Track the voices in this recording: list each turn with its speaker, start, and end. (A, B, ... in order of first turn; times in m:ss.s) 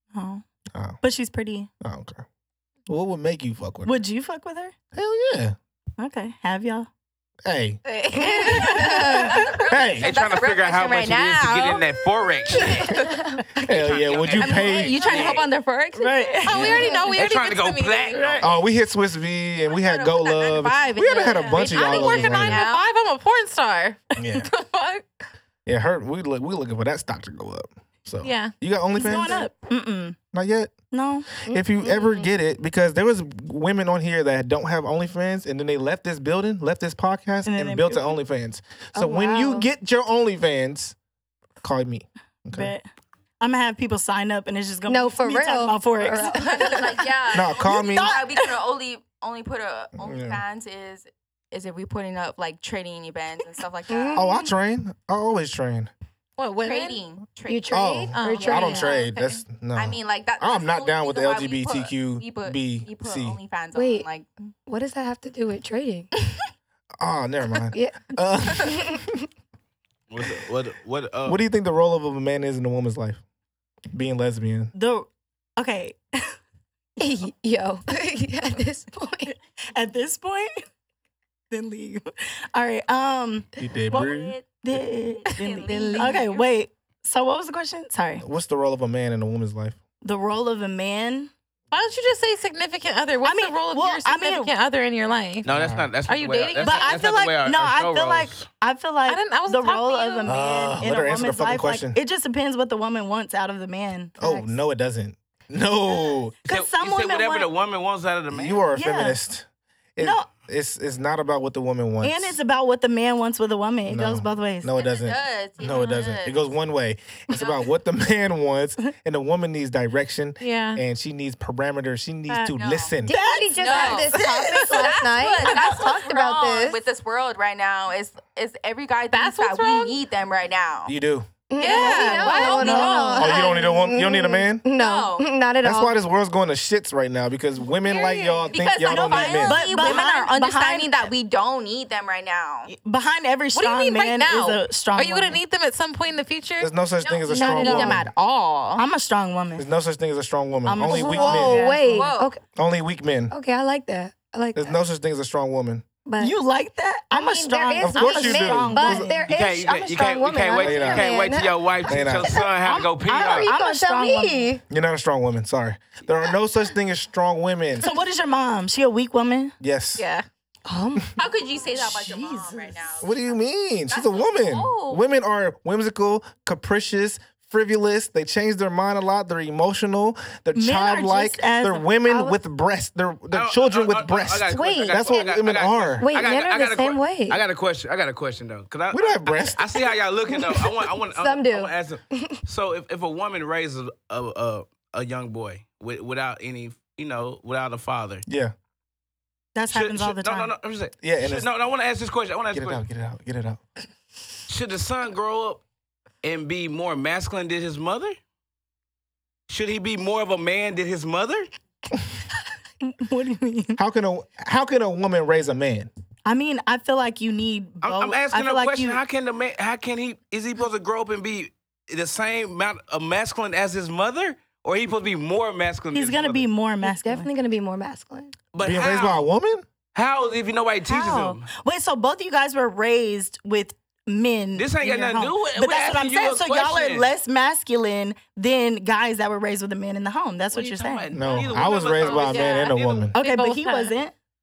0:00.1-0:00.4 A
0:00.8-0:01.0 B
0:01.0-0:01.7 A
0:01.8-0:02.2 B
0:02.9-0:04.0 B
0:03.8-0:04.7 A
0:04.9-0:05.6 B
0:06.0-0:06.9 A
0:07.4-0:07.8 B
0:07.9-0:09.5 C
0:08.2-0:09.6 A
0:08.2-0:13.4 D
0:09.7-0:10.1 B
0:10.0-0:12.9 E
0:13.6-0:15.4 B
0:13.7-0:15.4 E
0:14.4-0:17.1 D
0:15.0-0:15.4 A
0:16.0-0:17.0 A
0:16.4-0:18.5 C
0:17.1-0:18.5 E
0:18.4-0:22.6 B
0:19.7-0:22.9 D
0:21.5-0:25.1 C
0:24.2-0:24.5 B
0:25.7-0:29.5 B
0:28.2-0:28.5 C
0:28.9-0:30.2 A
0:30.3-0:30.7 B
0:30.9-0:31.4 A
0:31.4-0:32.3 F
0:31.5-0:41.0 B
0:37.5-0:38.1 A
0:39.0-0:39.7 F
0:41.6-0:42.7 B
0:42.5-0:42.9 A
0:43.4-0:48.6 A
0:44.9-0:47.1 F
0:46.2-0:54.3 D
0:47.3-0:48.2 B
0:50.0-0:50.4 B
0:53.9-0:54.5 F
0:54.1-0:55.9 B
0:56.4-0:57.0 C
0:56.6-0:59.1 D
0:57.5-0:59.1 F
0:57.7-1:03.4 B
0:58.1-0:59.3 C
0:59.7-1:04.3 D
1:03.7-1:04.1 F
1:04.7-1:06.1 F
1:07.0-1:09.1 B
1:07.7-1:09.2 F
1:10.1-1:11.4 E
1:11.3-1:13.2 B
1:13.9-1:14.7 B
1:14.7-1:16.3 A
1:17.0-1:19.4 F
1:19.8-1:20.5 A
1:21.5-1:28.2 A
1:23.6-1:24.4 B
1:23.9-1:26.4 D
1:25.4-1:26.1 F
1:25.7-1:26.2 C
1:28.2-1:29.8 B
1:30.0-1:31.3 A
1:31.7-1:35.5 C
1:33.2-1:34.5 A
1:35.4-1:38.5 E
1:35.5-1:35.9 B
1:36.0-1:37.1 C
1:36.6-1:44.2 A
1:39.1-1:40.4 C
1:40.3-1:42.0 B
1:44.2-1:44.5 F
1:44.2-1:46.4 B
1:46.4-1:47.5 A
1:46.5-1:48.7 E
1:48.3-1:52.4 B
1:48.8-1:49.2 A
1:50.0-1:50.3 A
1:52.0-1:54.7 A
1:53.8-2:03.2 B
1:54.8-1:56.4 D
1:57.3-1:57.6 D
2:00.4-2:00.8 C
2:02.3-2:03.0 D
2:03.0-2:06.8 F
2:03.1-2:05.8 A
2:03.6-2:10.9 D
2:09.1-2:10.0 C
2:10.9-2:11.3 B
2:11.5-2:16.0 F
2:11.6-2:13.0 D
2:11.6-2:13.5 C
2:11.6-2:13.4 A
2:13.2-2:14.6 B
2:14.8-2:15.3 D
2:15.6-2:19.6 B
2:17.8-2:18.6 C
2:18.5-2:22.7 D
2:18.8-2:21.1 A
2:22.7-2:25.4 A
2:23.6-2:26.7 C
2:26.6-2:28.1 B
2:27.0-2:28.8 D
2:27.3-2:28.0 F
2:28.8-2:29.7 A
2:29.6-2:31.6 B
2:30.6-2:32.1 A
2:30.8-2:32.4 F
2:31.8-2:32.3 D
2:32.6-2:33.3 B
2:33.3-2:34.7 F
2:34.5-2:35.8 B
2:36.0-2:36.4 F
2:36.2-2:39.3 A
2:37.1-2:44.6 F
2:37.8-2:39.4 B
2:39.3-2:43.5 E
2:40.6-2:41.1 B
2:41.9-2:42.4 B
2:42.6-2:44.6 A
2:44.7-2:47.9 B
2:47.8-2:49.6 A
2:49.6-2:50.0 B
2:50.0-2:50.3 C
2:50.7-2:51.2 F
2:51.2-2:53.4 D
2:51.4-2:53.1 A
2:53.0-3:06.1 B
2:53.9-2:55.0 D
3:00.6-3:02.0 A
3:02.1-3:02.4 F
3:03.3-3:18.2 E
3:04.5-3:05.3 F
3:06.0-3:07.4 F
3:08.9-3:09.7 B
3:10.4-3:12.4 F
3:18.3-3:18.5 B
3:19.5-3:20.5 A
3:19.7-3:22.8 E
3:21.0-3:21.5 B
3:22.5-3:23.6 B
3:24.5-3:25.6 E
3:26.2-3:28.2 E
3:29.5-3:31.5 E
3:32.8-3:33.8 A
3:33.8-3:35.9 B
3:36.2-3:39.0 A
3:37.8-3:46.5 E
3:45.9-3:47.3 A
3:46.8-3:48.3 F
3:48.5-3:49.2 E
3:48.6-3:49.6 B
3:49.9-3:51.4 E
3:50.9-4:01.1 A
3:54.6-3:57.1 E
4:00.5-4:03.1 E
4:01.1-4:03.2 B
4:01.9-4:04.0 C
4:03.1-4:04.1 A